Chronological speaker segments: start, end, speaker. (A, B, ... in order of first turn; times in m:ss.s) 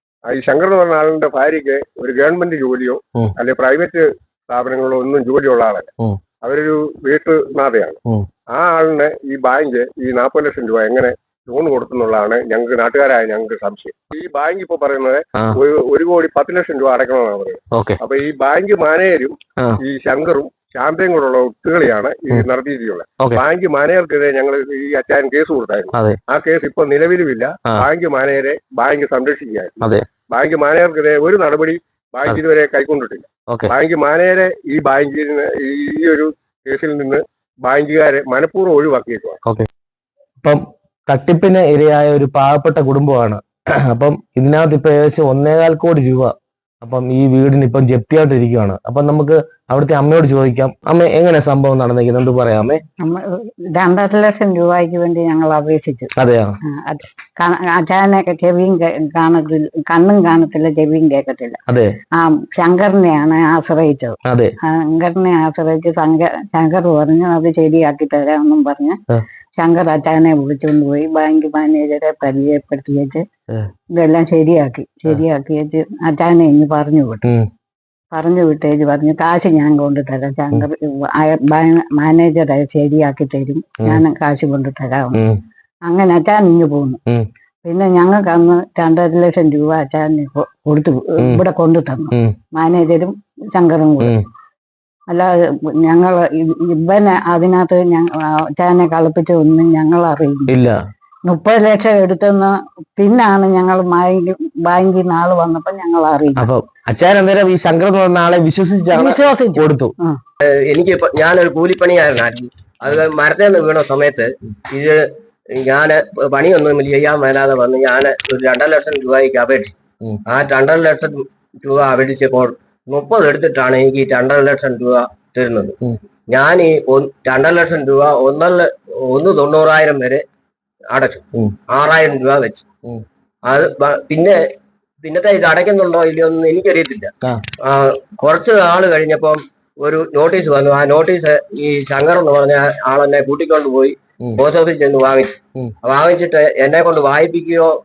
0:00.3-0:05.9 A
0:06.4-0:08.0 A
0:08.5-0:39.4 A
0:17.7-0:18.0 B
0:25.9-0:26.2 B
0:40.4-0:52.8 B
0:53.0-0:56.1 C
0:56.2-0:56.5 B
0:56.7-1:01.6 C
1:01.7-1:01.9 B
1:02.2-1:09.0 C
1:09.6-1:13.2 C
1:14.0-1:17.3 C
1:18.1-1:25.2 C
1:25.1-1:25.4 B
1:25.9-1:27.0 C
1:27.6-1:34.2 C
1:35.8-1:40.6 C
1:40.5-1:40.8 B
1:41.2-1:46.5 C
1:46.4-1:49.9 B
1:48.9-1:50.2 C
1:50.4-1:55.0 D
1:55.5-1:59.8 D
2:00.3-2:05.8 D
2:06.3-2:10.2 D
2:10.9-2:12.7 D
2:13.4-2:14.4 D
2:15.0-2:17.1 D
2:17.6-2:27.7 D